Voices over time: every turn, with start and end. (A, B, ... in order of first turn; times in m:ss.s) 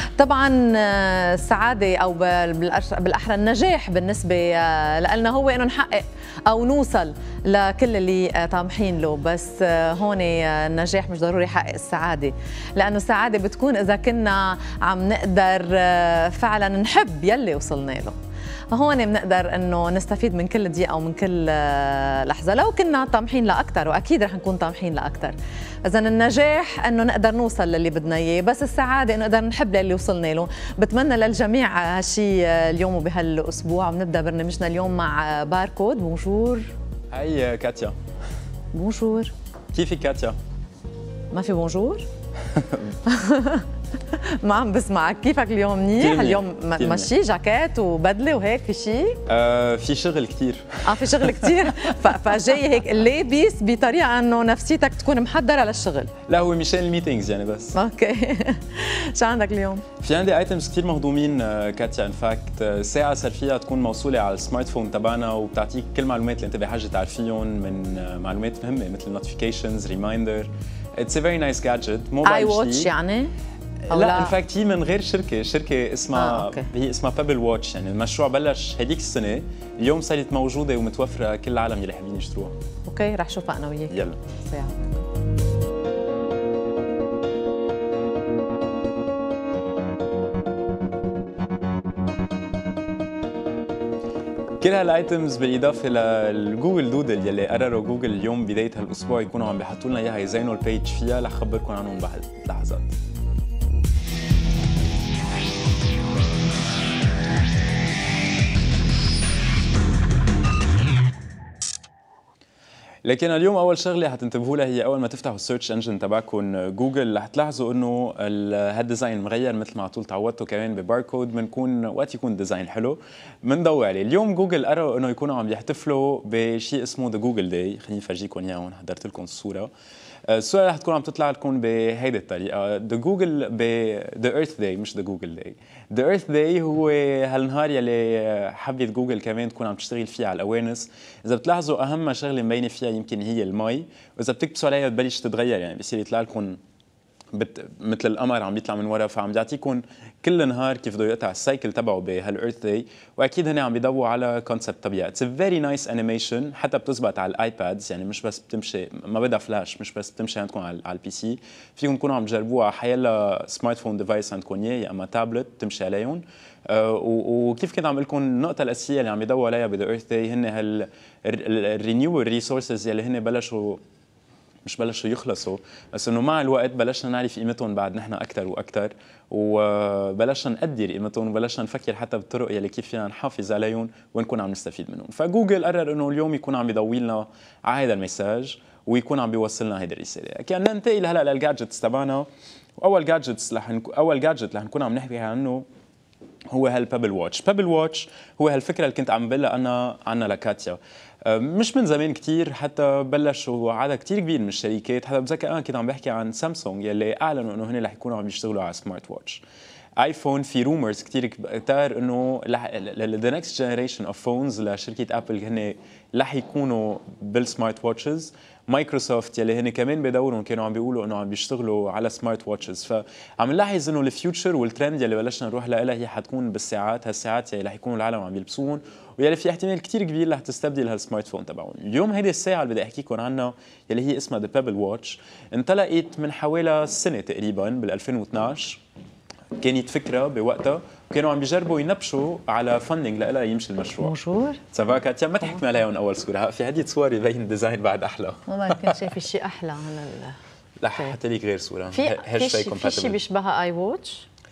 0:00.2-0:18.2 A
0:18.7-0:36.7 A
0:37.1-0:38.0 B
0:38.7-0:39.3 A
0:39.7-0:40.4 B
0:41.3-0:42.1 A
0:42.5-0:43.0 B
0:43.1-0:49.2 A
0:46.0-0:47.1 B
0:49.3-0:51.9 B
0:50.8-0:56.1 A
0:56.3-0:57.8 B
0:57.7-0:59.8 A
1:00.0-1:12.9 B
1:12.2-1:13.3 A
1:13.8-1:22.6 B
1:13.9-1:14.4 A
1:16.1-1:16.7 A
1:22.9-1:24.8 A
1:23.9-1:24.2 B
1:34.6-1:43.0 B
1:53.0-2:09.7 B
2:10.3-2:26.6 B
2:27.3-2:53.8 B
2:54.6-3:15.6 B
3:16.5-3:29.4 B
3:30.0-3:58.8 B
3:59.6-4:04.2 B
4:04.0-4:04.6 A
4:04.7-4:09.0 B
4:08.5-4:10.4 A
4:10.8-4:13.2 B
4:11.9-4:14.3 A